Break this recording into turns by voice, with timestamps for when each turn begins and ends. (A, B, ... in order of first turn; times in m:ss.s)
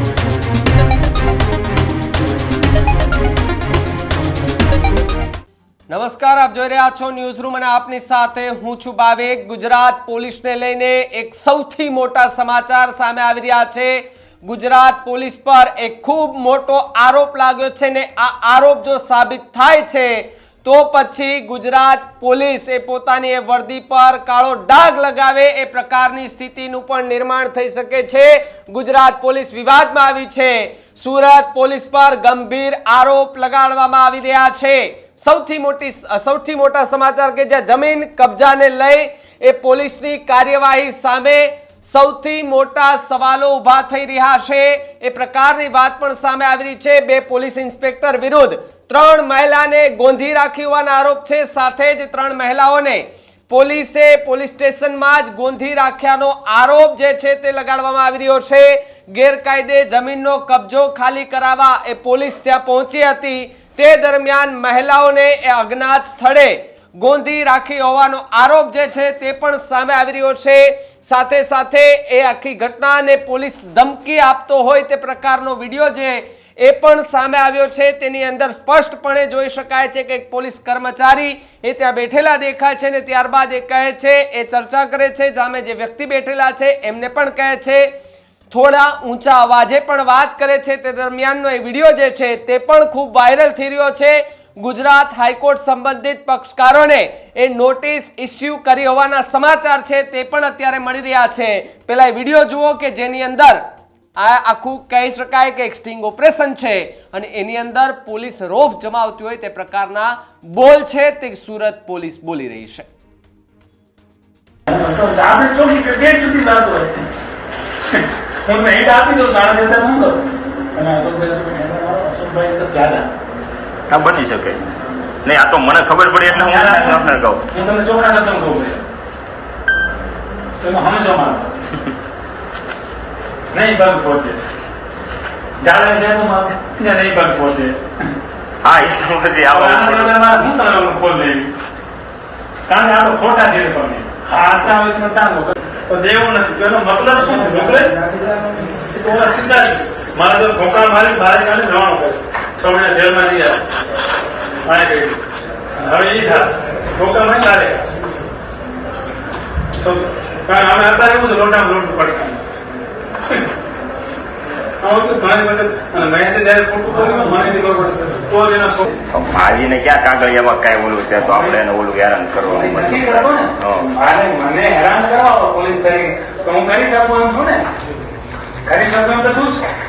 0:05.9-1:27.9 A
1:28.5-1:43.6 A
1:44.2-1:52.9 A
1:54.7-1:57.1 B
1:57.9-2:00.2 B
2:00.7-2:03.1 B
2:03.9-2:04.6 C
2:05.2-2:07.4 C
2:06.4-2:08.8 B
2:10.6-2:11.5 B
2:13.5-2:14.4 B
2:15.6-2:18.1 B
2:18.6-2:20.2 C
2:19.5-2:21.5 B
2:22.7-2:33.6 B
2:34.7-2:35.2 B
2:35.8-2:38.0 B
2:39.7-2:42.4 B
2:44.8-2:49.0 B
2:49.1-2:53.9 C
2:51.3-2:51.5 B
2:52.4-2:57.7 B
2:58.6-2:59.7 B